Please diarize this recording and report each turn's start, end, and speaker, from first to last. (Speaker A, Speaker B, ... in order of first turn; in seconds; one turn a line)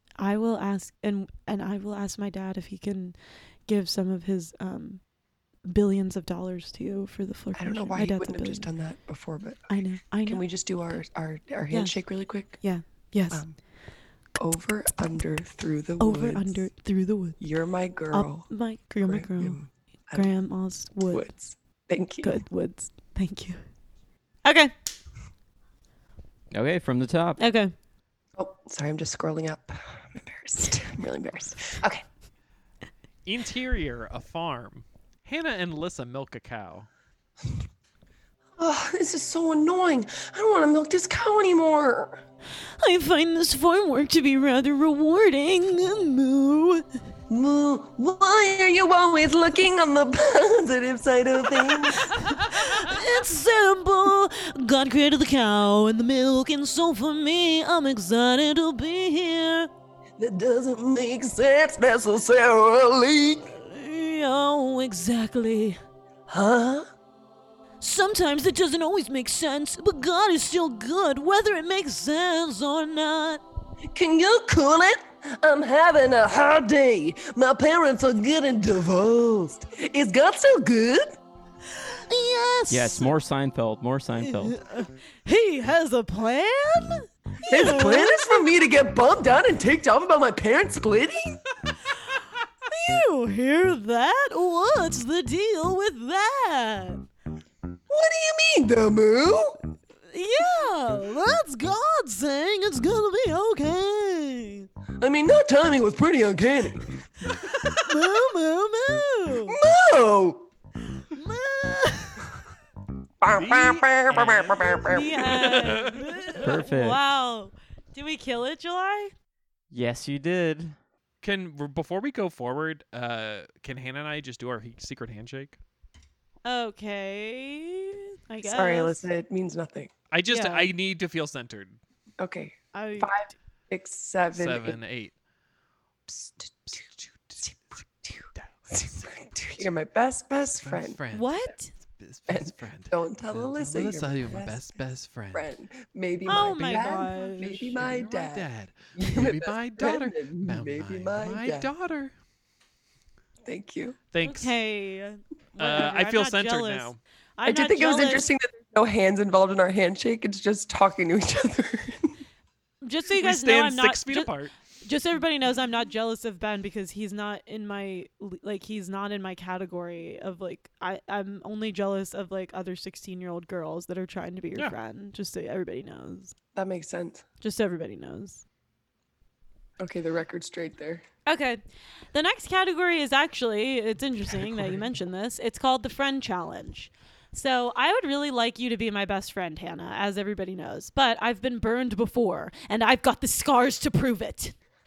Speaker A: 0.2-5.0
Speaker A: 5.7-8.7
Speaker B: 7.5-12.6
Speaker A: 9.7-10.4
Speaker A: 11.7-13.4
Speaker B: 13.3-13.6
Speaker B: 14.4-16.7
Speaker A: 16.0-17.4
Speaker B: 17.4-18.5
Speaker A: 18.1-19.6
Speaker B: 19.0-20.3
Speaker A: 20.1-21.3
Speaker B: 21.1-22.4
Speaker A: 22.2-23.6
Speaker A: 24.4-24.7
Speaker C: 26.5-27.4
Speaker A: 27.4-27.7
Speaker B: 28.4-32.0
Speaker D: 33.2-36.9
Speaker B: 38.6-42.2
Speaker A: 42.8-46.8
Speaker B: 47.3-52.2
Speaker A: 52.0-59.7
Speaker B: 60.2-63.5
Speaker A: 63.5-65.8
Speaker B: 66.3-66.9
Speaker A: 67.8-73.4
Speaker B: 73.9-81.1
Speaker A: 81.8-83.1
Speaker C: 82.7-84.6
Speaker A: 84.2-88.4
Speaker B: 87.5-91.4
Speaker A: 92.7-97.0
Speaker B: 97.9-99.6
Speaker A: 100.1-104.7
Speaker B: 105.0-107.0
Speaker A: 107.7-109.5
Speaker B: 109.5-110.5
Speaker A: 111.1-112.2
Speaker B: 113.2-115.7
Speaker D: 113.3-116.2
Speaker A: 114.8-119.1
Speaker C: 116.3-117.0
Speaker C: 119.7-120.8
Speaker D: 121.2-125.6
Speaker A: 126.4-129.0
Speaker B: 128.4-129.9
Speaker D: 130.1-131.8
Speaker A: 130.3-130.7
Speaker B: 132.2-134.8
Speaker A: 132.7-133.2
Speaker D: 134.3-135.1
Speaker B: 136.1-136.8
Speaker B: 137.4-141.0
Speaker D: 140.6-145.4
Speaker A: 141.1-141.7
Speaker B: 142.3-144.7
Speaker B: 145.3-151.7
Speaker A: 146.2-147.8
Speaker D: 146.3-152.1
Speaker B: 153.4-154.0
Speaker D: 154.1-154.5
Speaker A: 154.2-158.3
Speaker D: 155.6-157.0
Speaker B: 157.4-162.1
Speaker A: 162.8-176.3
Speaker D: 163.1-164.5
Speaker B: 176.5-177.2
Speaker A: 177.4-178.4
Speaker B: 179.8-181.0
Speaker A: 181.2-181.6
Speaker A: 182.1-194.5